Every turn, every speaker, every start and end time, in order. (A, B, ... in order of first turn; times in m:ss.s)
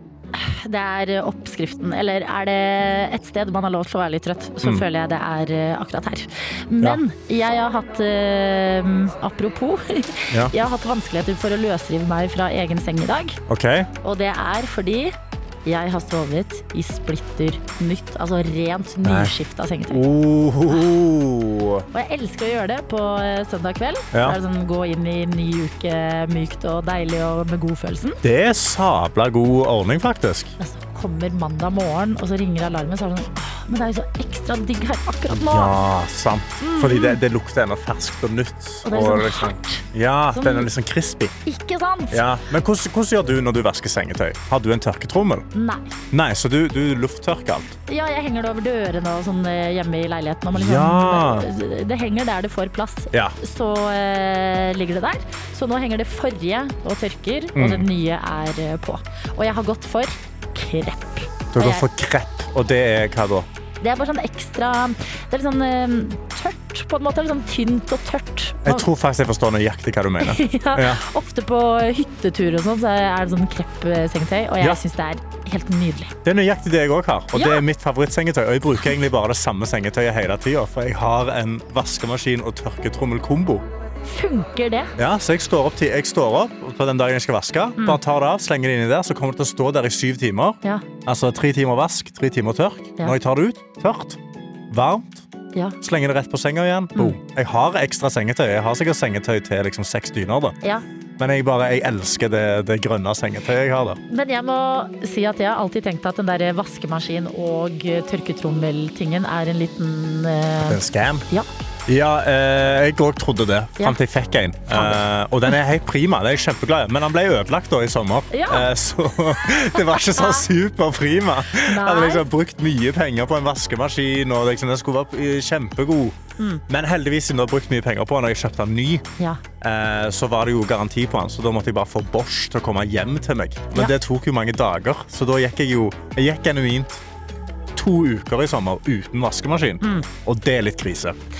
0:00.3-0:13.4 A
0:13.5-0:13.9 B
0:14.0-0:20.0 A
0:19.0-0:19.3 B
0:19.9-0:21.8 B
0:21.9-0:28.2 A
0:24.1-0:24.4 B
0:28.2-0:30.5 B
0:30.6-0:35.8 A
0:35.3-0:41.4 B
0:36.6-0:37.2 A
0:38.8-0:40.7 A
0:41.4-0:42.2 A
0:42.1-0:45.4 B
0:45.5-0:46.0 A
0:46.1-0:47.7 B
0:47.9-1:01.8 A
0:50.5-0:51.5 B
0:57.5-0:57.8 B
1:01.5-1:03.5 B
1:03.8-1:08.9 A
1:08.6-1:11.0 B
1:10.2-1:16.1 A
1:16.2-1:23.6 B
1:17.3-1:17.6 A
1:24.0-1:24.9 A
1:25.0-1:35.2 B
1:35.8-1:40.6 B
1:41.2-1:44.0 B
1:44.1-1:51.5 A
1:50.6-1:51.2 B
1:51.9-2:06.2 B
1:54.7-1:55.0 A
1:58.3-1:58.7 A
1:59.8-2:00.5 A
2:01.6-2:02.2 A
2:06.7-2:09.1 B
2:09.6-2:17.0 B
2:17.8-2:21.2 B
2:19.8-2:20.1 A